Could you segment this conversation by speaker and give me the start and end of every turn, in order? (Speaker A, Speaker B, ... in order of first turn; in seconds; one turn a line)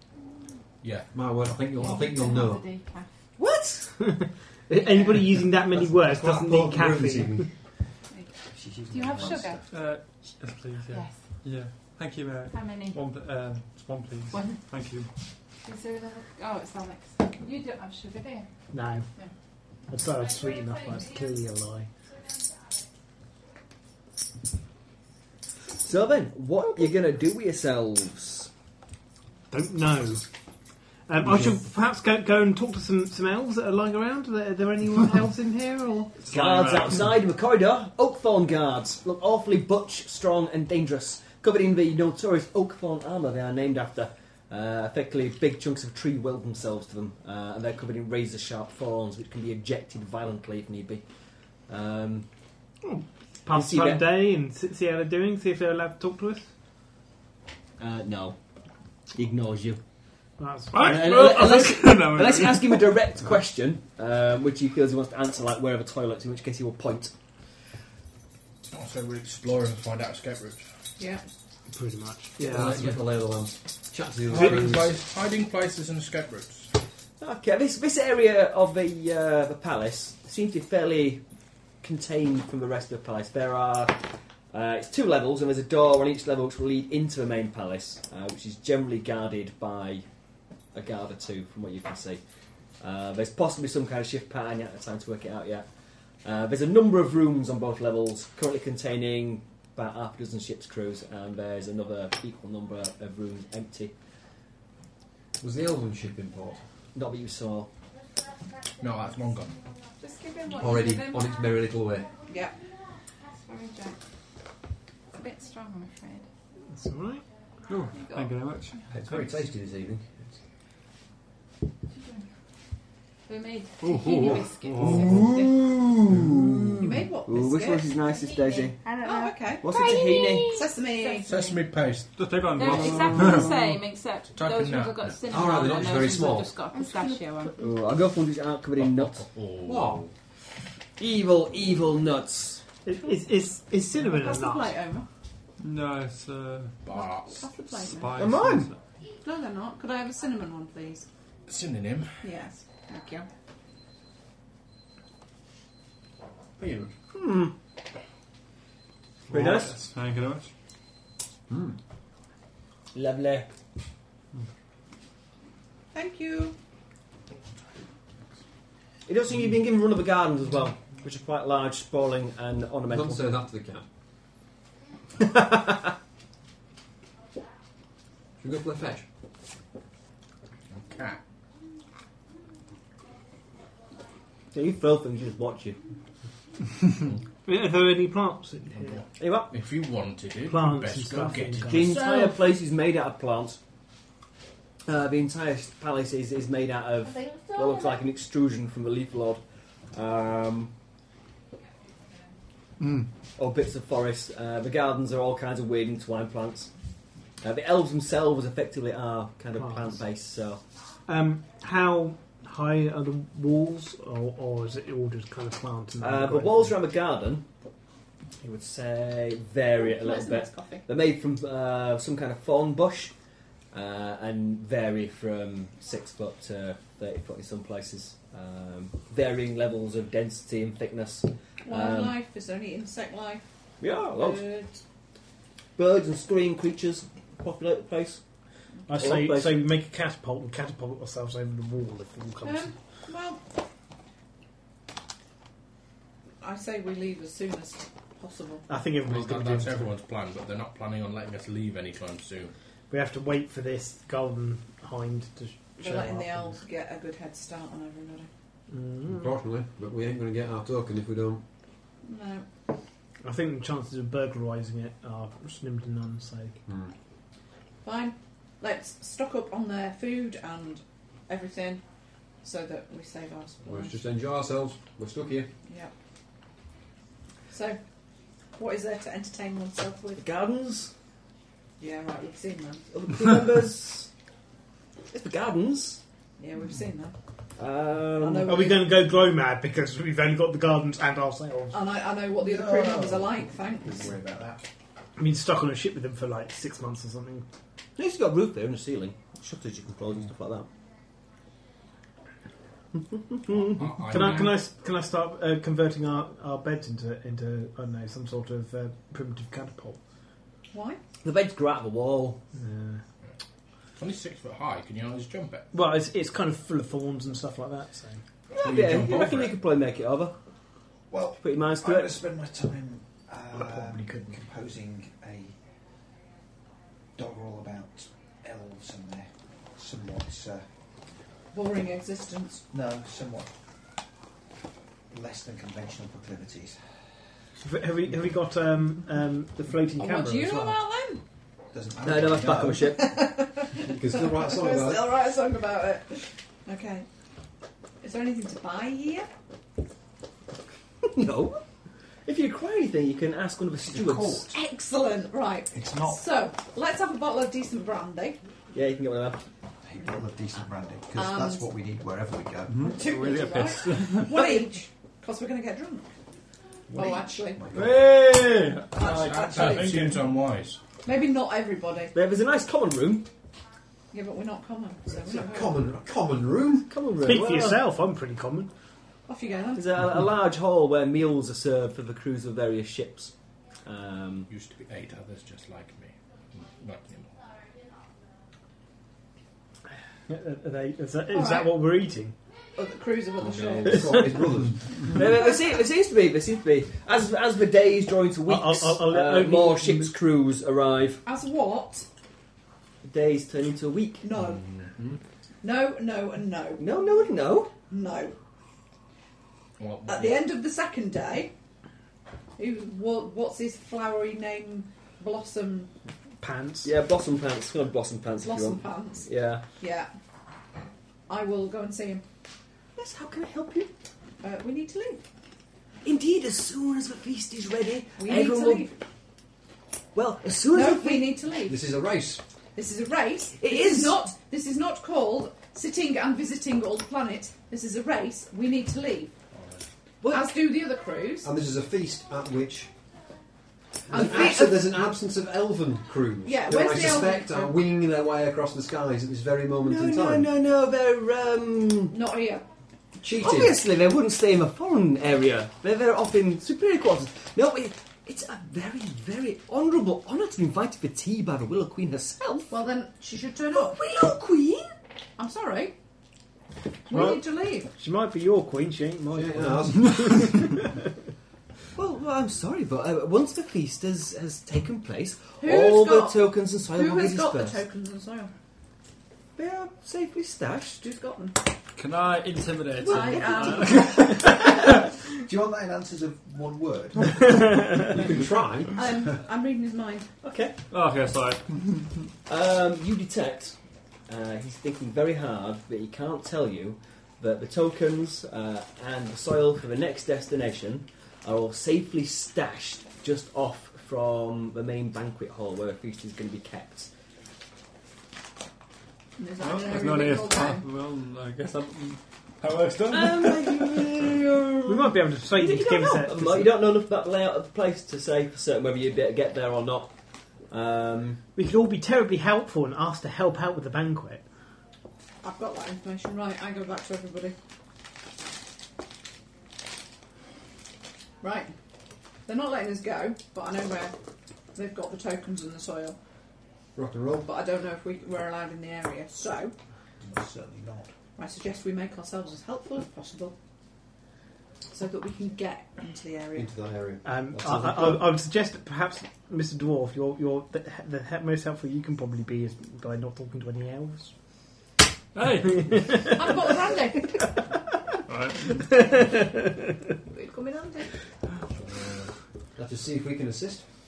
Speaker A: 0.8-1.1
Speaker B: 1.1-2.6
Speaker C: 1.7-3.1
Speaker D: 3.4-3.9
Speaker E: 4.0-7.5
Speaker B: 5.6-7.5
Speaker B: 8.6-9.6
Speaker C: 8.9-9.6
Speaker F: 9.7-15.1
Speaker C: 10.9-11.2
Speaker C: 12.5-13.0
Speaker C: 14.3-14.6
Speaker C: 15.6-18.5
Speaker E: 18.7-19.1
Speaker E: 19.9-21.9
Speaker D: 25.8-28.5
Speaker E: 29.5-30.2
Speaker E: 31.1-36.1
Speaker B: 31.2-31.6
Speaker F: 36.2-37.1
Speaker D: 36.3-51.0
Speaker D: 51.7-52.3
Speaker E: 52.8-56.5
Speaker D: 53.5-54.1
Speaker D: 57.8-58.4
Speaker D: 59.1-59.8
Speaker E: 60.4-60.9
Speaker F: 60.7-62.9
Speaker D: 60.7-67.1
Speaker A: 68.7-70.7
Speaker G: 71.0-71.2
Speaker E: 71.7-73.0
Speaker B: 72.4-75.0
Speaker A: 74.3-76.7
Speaker D: 77.2-81.2
Speaker D: 81.8-90.0
Speaker D: 90.7-92.2
Speaker D: 92.8-95.7
Speaker D: 96.2-103.9
Speaker B: 105.4-106.6
Speaker D: 107.0-107.7
Speaker A: 108.8-109.6
Speaker C: 110.0-111.3
Speaker B: 110.5-112.1
Speaker C: 113.3-114.0
Speaker C: 115.1-116.3
Speaker E: 116.7-117.2
Speaker F: 117.7-118.8
Speaker C: 117.9-118.3
Speaker B: 118.9-120.4
Speaker C: 121.9-122.3
Speaker C: 123.3-125.5
Speaker B: 123.9-124.4
Speaker D: 124.8-128.9
Speaker G: 126.8-128.0
Speaker C: 128.8-130.4
Speaker G: 128.9-129.7
Speaker D: 129.6-130.6
Speaker G: 130.5-131.5
Speaker C: 130.9-131.6
Speaker A: 131.2-132.3
Speaker F: 132.1-133.7
Speaker C: 132.5-137.6
Speaker B: 132.7-133.4
Speaker A: 134.3-135.2
Speaker B: 135.3-136.5
Speaker G: 136.8-137.3
Speaker D: 137.6-139.2
Speaker A: 138.8-140.1
Speaker B: 139.7-140.1
Speaker D: 141.0-142.6
Speaker E: 142.8-144.8
Speaker G: 144.1-145.1
Speaker F: 145.6-146.8
Speaker A: 146.8-147.5
Speaker G: 146.9-148.2
Speaker F: 147.8-148.8
Speaker D: 148.2-148.7
Speaker G: 149.2-151.1
Speaker A: 151.5-152.3
Speaker G: 152.2-153.3
Speaker B: 156.6-156.9
Speaker D: 157.1-157.5
Speaker F: 159.3-160.5
Speaker D: 159.3-159.8
Speaker B: 161.5-161.8
Speaker D: 162.9-163.5
Speaker G: 165.9-166.6
Speaker D: 169.1-173.3
Speaker B: 172.9-173.8
Speaker D: 175.2-175.9
Speaker B: 178.4-179.1
Speaker A: 180.7-181.2
Speaker D: 184.5-185.8
Speaker E: 187.5-189.0
Speaker A: 188.7-192.1
Speaker D: 189.2-189.5
Speaker E: 190.5-192.0
Speaker D: 191.7-193.6
Speaker D: 194.9-199.4
Speaker D: 199.9-200.7
Speaker F: 202.8-203.1
Speaker D: 203.4-206.7
Speaker D: 207.4-210.6
Speaker E: 209.6-210.0
Speaker E: 211.1-216.8
Speaker D: 216.0-217.5
Speaker D: 218.4-223.1
Speaker G: 219.9-220.8
Speaker D: 223.7-232.2
Speaker G: 231.7-233.4
Speaker D: 233.8-234.4
Speaker G: 234.1-234.8
Speaker D: 235.8-238.2
Speaker E: 238.9-242.7
Speaker D: 239.0-239.7
Speaker G: 242.4-243.4
Speaker G: 246.4-248.7
Speaker E: 248.7-249.9
Speaker A: 249.0-252.5
Speaker E: 252.9-256.6
Speaker G: 255.8-258.3
Speaker E: 258.7-259.3
Speaker B: 259.1-261.4
Speaker G: 262.1-262.5
Speaker E: 263.2-266.6
Speaker B: 266.7-266.9
Speaker G: 267.8-271.8
Speaker G: 272.4-274.0
Speaker B: 273.6-275.5
Speaker G: 275.7-275.9
Speaker G: 277.5-277.8
Speaker G: 278.6-280.2
Speaker D: 280.2-280.9
Speaker G: 281.8-282.9
Speaker D: 282.9-284.1
Speaker D: 285.1-286.0
Speaker G: 286.4-287.1
Speaker D: 287.6-288.5
Speaker G: 288.2-289.0
Speaker E: 288.4-291.8
Speaker G: 291.7-294.1
Speaker H: 292.4-294.6
Speaker E: 295.2-297.5
Speaker D: 298.0-300.7
Speaker D: 303.3-303.7
Speaker A: 303.5-304.6
Speaker E: 304.1-310.0
Speaker G: 310.7-311.0
Speaker D: 311.2-312.4
Speaker E: 312.6-313.0
Speaker A: 314.0-315.7
Speaker E: 315.7-318.2
Speaker D: 318.5-320.4
Speaker A: 318.5-319.6
Speaker H: 321.1-325.6
Speaker D: 321.4-322.2
Speaker E: 323.5-324.4
Speaker H: 327.2-330.6
Speaker G: 331.5-332.6
Speaker H: 332.7-333.5
Speaker H: 335.1-336.8
Speaker E: 337.6-340.8
Speaker G: 340.0-341.2
Speaker H: 341.7-343.0
Speaker D: 342.0-343.1
Speaker G: 342.9-347.1
Speaker B: 343.8-345.1
Speaker G: 348.0-349.3
Speaker D: 351.0-351.6
Speaker D: 352.3-354.5
Speaker H: 353.9-354.5
Speaker G: 354.5-358.4
Speaker H: 355.7-356.2
Speaker D: 358.7-359.4
Speaker H: 359.8-362.9
Speaker G: 361.1-361.6
Speaker F: 362.7-364.5
Speaker G: 362.9-366.1
Speaker H: 366.9-368.1
Speaker G: 366.9-367.6
Speaker F: 367.7-370.4
Speaker A: 369.0-370.8
Speaker G: 369.2-369.7
Speaker G: 371.0-372.1
Speaker D: 372.1-373.3
Speaker G: 374.1-375.8
Speaker B: 375.2-376.9
Speaker D: 376.9-377.8
Speaker E: 377.2-378.7
Speaker G: 379.3-379.9
Speaker D: 379.8-383.3
Speaker D: 383.9-384.5
Speaker A: 384.5-387.3
Speaker E: 390.3-392.4
Speaker G: 391.3-391.7
Speaker G: 392.8-394.2
Speaker A: 393.4-394.0
Speaker B: 393.8-395.2
Speaker D: 395.0-401.2
Speaker E: 398.5-400.1
Speaker G: 401.2-402.1
Speaker D: 403.0-404.2
Speaker G: 404.2-404.7
Speaker A: 404.6-405.2
Speaker G: 405.6-407.1
Speaker D: 406.8-407.7
Speaker G: 407.7-408.4
Speaker A: 409.8-410.4
Speaker G: 410.1-411.5
Speaker G: 412.6-415.9
Speaker E: 416.4-416.9
Speaker D: 416.8-419.6
Speaker G: 418.4-420.1
Speaker G: 421.3-422.2
Speaker D: 423.0-423.9
Speaker G: 424.4-425.2
Speaker D: 426.0-428.9
Speaker G: 428.2-429.0
Speaker D: 430.1-431.4
Speaker G: 430.7-431.8
Speaker B: 431.6-432.4
Speaker G: 432.8-439.3
Speaker D: 433.6-434.2
Speaker A: 439.5-439.8
Speaker D: 440.2-440.7
Speaker G: 440.3-441.5
Speaker B: 441.4-442.9
Speaker B: 444.1-450.5
Speaker G: 444.1-444.9
Speaker G: 446.4-447.8
Speaker D: 449.9-452.2
Speaker G: 452.1-452.7
Speaker B: 453.2-453.8
Speaker D: 453.4-462.7
Speaker G: 462.7-464.0
Speaker D: 463.8-464.9
Speaker G: 465.4-465.9
Speaker G: 467.1-467.9
Speaker E: 467.1-471.0
Speaker B: 469.3-470.6
Speaker D: 472.0-477.8
Speaker G: 475.6-478.5
Speaker D: 479.6-481.0
Speaker G: 481.0-481.6
Speaker F: 482.0-485.1
Speaker G: 483.0-484.6
Speaker H: 485.4-488.3
Speaker B: 488.1-489.0
Speaker G: 488.9-490.3
Speaker D: 490.4-490.8
Speaker F: 490.9-492.2
Speaker D: 492.5-493.8
Speaker D: 494.3-507.1
Speaker G: 509.4-510.9
Speaker F: 509.6-514.2
Speaker D: 513.1-520.1
Speaker E: 514.9-516.8
Speaker D: 520.7-521.4
Speaker E: 521.6-524.4
Speaker G: 525.4-527.5
Speaker G: 531.4-531.7
Speaker G: 532.5-534.1
Speaker G: 534.8-536.2
Speaker B: 537.0-537.5
Speaker G: 537.4-539.7
Speaker H: 540.2-541.1
Speaker G: 541.4-543.5
Speaker G: 544.9-546.7
Speaker B: 546.5-548.3
Speaker E: 547.2-554.3
Speaker F: 555.3-556.3
Speaker E: 555.8-556.5
Speaker G: 556.3-557.5
Speaker F: 558.3-558.9
Speaker E: 558.8-559.8
Speaker G: 560.3-561.1
Speaker B: 562.8-563.8